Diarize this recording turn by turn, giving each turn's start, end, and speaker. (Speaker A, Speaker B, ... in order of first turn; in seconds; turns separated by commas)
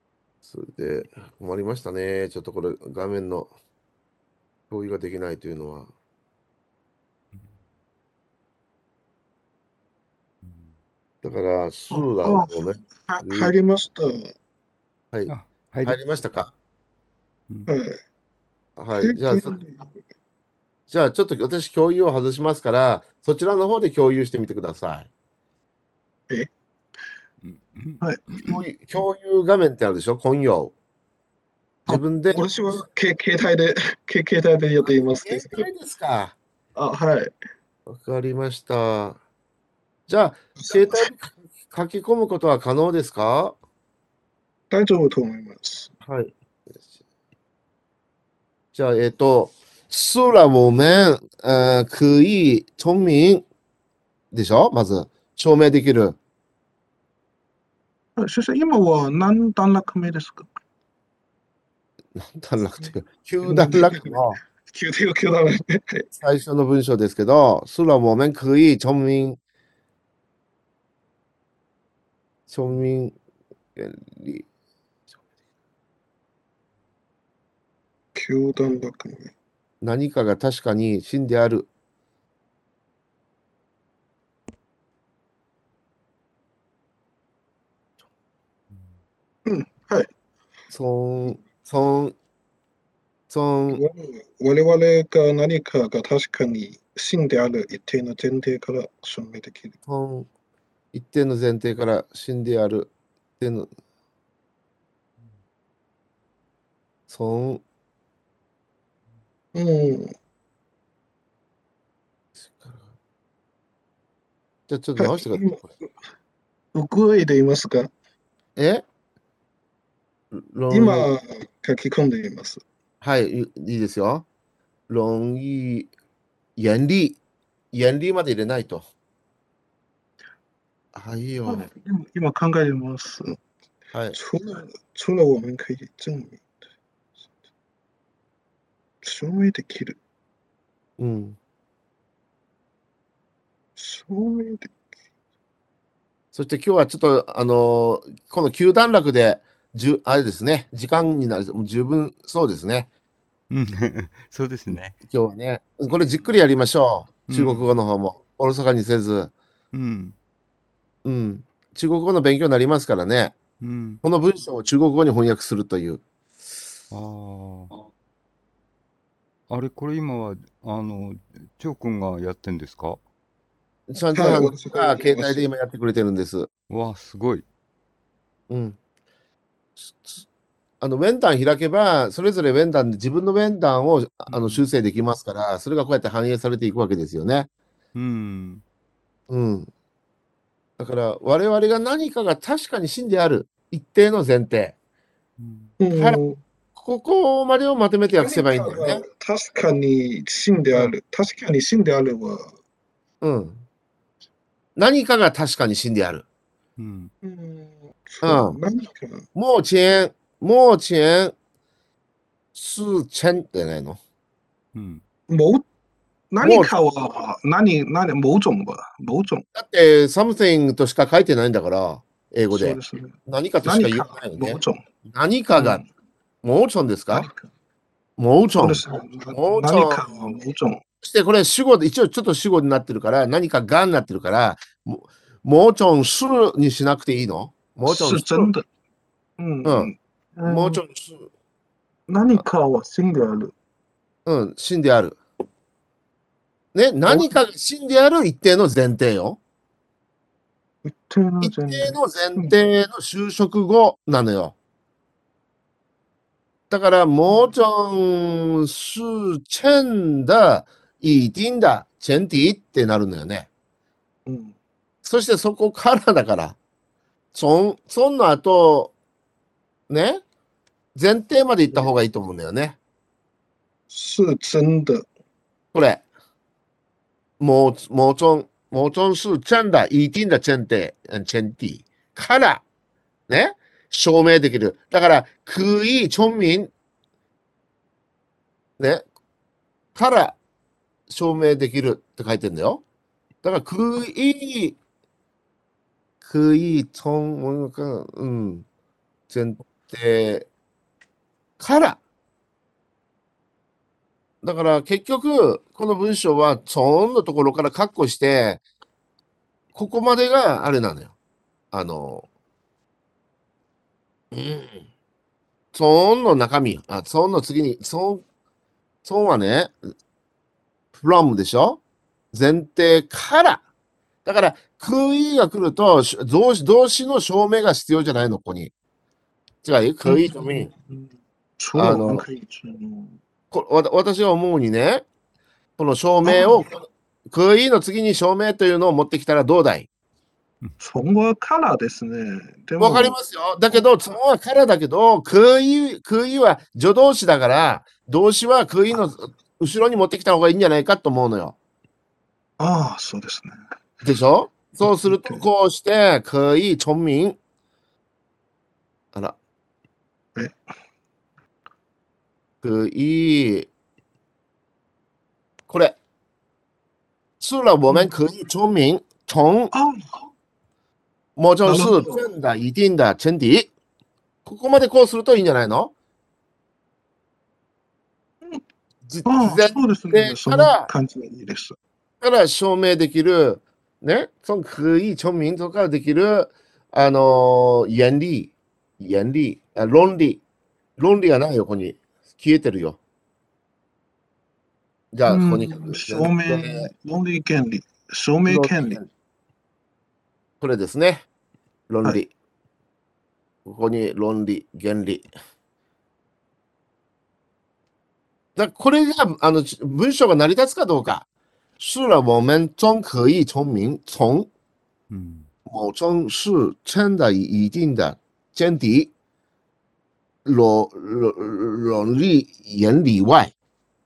Speaker A: 0.5-3.5, Speaker A: 4.7-5.9, Speaker B: 7.3-7.6, Speaker B: 10.4-10.8, Speaker A: 11.2-13.5, Speaker C: 11.9-14.3, Speaker B: 15.3-16.1, Speaker A: 15.8-16.5, Speaker C: 17.7-18.0, Speaker A: 18.8-19.6, Speaker C: 19.0-19.9, Speaker A: 20.9-25.1, Speaker B: 27.4-28.5, Speaker A: 28.4-30.7, Speaker C: 31.9-35.7, Speaker A: 31.9-32.4, Speaker A: 35.2-36.4, Speaker C: 36.8-37.3, Speaker A: 37.9-39.2, Speaker A: 40.1-43.5, Speaker C: 40.6-41.1, Speaker C: 44.7-45.9, Speaker A: 46.0-46.3, Speaker A: 48.7-53.4, Speaker A: 54.3-56.2, Speaker C: 58.2-60.5, Speaker A: 62.2-64.4, Speaker C: 63.4-66.1, Speaker A: 66.2-69.4, Speaker A: 72.5-73.2, Speaker A: 73.8-74.5, Speaker C: 78.2-79.3, Speaker A: 79.8-81.7, Speaker B: 88.7-89.0, Speaker C: 89.5-90.1, Speaker A: 90.7-92.2, Speaker A: 93.3-93.8, Speaker C: 93.7-99.8, Speaker A: 99.9-100.3, Speaker A: 100.9-103.7, Speaker A: 107.1-107.6, Speaker C: 109.5-110.1, Speaker A: 112.5-112.8, Speaker A: 114.7-115.6, Speaker C: 115.0-115.7, Speaker C: 116.7-117.9, Speaker A: 118.6-118.8, Speaker A: 120.3-121.1, Speaker C: 120.7-122.6, Speaker A: 123.0-124.2, Speaker A: 124.9-125.9, Speaker A: 126.6-127.2, Speaker A: 127.7-128.8, Speaker A: 130.9-131.7, Speaker C: 131.5-133.4, Speaker A: 133.9-134.2, Speaker C: 134.1-136.4, Speaker C: 139.0-140.0, Speaker A: 141.0-141.4, Speaker C: 143.8-144.7, Speaker A: 146.3-152.9, Speaker B: 153.5-155.0, Speaker A: 155.1-159.3, Speaker B: 157.3-157.7, Speaker B: 159.7-160.2, Speaker A: 161.1-163.3, Speaker B: 163.6-164.0, Speaker A: 164.0-166.0, Speaker B: 166.9-167.7, Speaker B: 169.5-173.0, Speaker A: 173.9-176.5, Speaker C: 174.1-175.5, Speaker B: 176.7-177.4, Speaker A: 178.5-178.8, Speaker A: 179.9-180.2, Speaker A: 180.8-187.5, Speaker B: 184.3-184.7, Speaker B: 187.9-188.6, Speaker A: 189.3-189.7, Speaker A: 190.8-194.8, Speaker B: 195.4-195.7, Speaker C: 195.8-196.4, Speaker A: 196.8-199.0, Speaker C: 198.2-202.5, Speaker A: 203.2-203.6, Speaker A: 204.8-206.2, Speaker B: 206.8-207.1, Speaker C: 207.2-209.2, Speaker A: 208.2-208.6, Speaker A: 209.3-211.3, Speaker A: 212.6-214.0, Speaker B: 214.8-215.0, Speaker C: 215.3-215.7, Speaker C: 216.3-219.4, Speaker A: 216.4-216.7, Speaker A: 219.6-225.8, Speaker C: 222.5-224.8, Speaker C: 225.6-225.8, Speaker A: 226.4-227.3, Speaker C: 227.1-227.5, Speaker A: 228.2-230.4, Speaker C: 228.6-230.8, Speaker A: 231.0-238.5, Speaker C: 237.9-238.6, Speaker C: 239.4-240.8, Speaker A: 239.7-239.9, Speaker A: 240.4-241.3, Speaker C: 242.1-243.5, Speaker A: 244.3-245.2, Speaker A: 246.7-249.4, Speaker C: 247.1-247.3, Speaker C: 250.8-252.6, Speaker A: 251.4-254.5, Speaker A: 256.7-263.5, Speaker C: 264.3-264.6, Speaker A: 265.0-266.6, Speaker A: 267.3-268.9, Speaker A: 269.9-270.2, Speaker A: 270.9-272.8, Speaker C: 273.9-275.1, Speaker A: 275.7-276.0, Speaker A: 277.4-282.6, Speaker A: 283.3-286.7, Speaker A: 288.8-289.0, Speaker A: 289.9-290.4, Speaker A: 291.1-292.8, Speaker A: 293.4-294.8, Speaker A: 296.2-298.6, Speaker A: 299.3-300.5, Speaker A: 301.6-302.0, Speaker A: 304.4-308.6, Speaker A: 309.8-311.1, Speaker A: 311.7-312.2, Speaker A: 314.3-314.8, Speaker A: 315.7-318.2, Speaker A: 319.0-319.8, Speaker A: 321.0-321.8, Speaker A: 322.3-323.6, Speaker A: 324.2-328.7, Speaker A: 329.6-330.7, Speaker C: 330.1-333.2, Speaker A: 331.8-332.2, Speaker A: 333.5-335.1, Speaker A: 335.8-339.9, Speaker C: 336.2-336.7, Speaker C: 340.8-343.2, Speaker A: 342.8-351.6, Speaker C: 352.6-353.6, Speaker A: 354.0-357.4, Speaker C: 354.8-355.4, Speaker A: 362.6-363.7, Speaker A: 365.7-366.0, Speaker A: 367.4-369.7, Speaker C: 369.7-370.2, Speaker A: 371.4-373.7, Speaker C: 371.6-372.3, Speaker A: 374.4-375.9, Speaker A: 379.1-380.9, Speaker C: 379.3-381.8, Speaker A: 382.2-390.4, Speaker A: 391.0-393.0, Speaker A: 395.1-396.9, Speaker C: 395.3-399.0, Speaker A: 398.5-399.1, Speaker A: 400.6-401.2, Speaker A: 401.9-402.3, Speaker A: 403.6-405.3, Speaker A: 408.6-411.2, Speaker A: 411.8-414.5, Speaker B: 415.1-415.5, Speaker A: 415.7-419.1, Speaker A: 420.4-423.5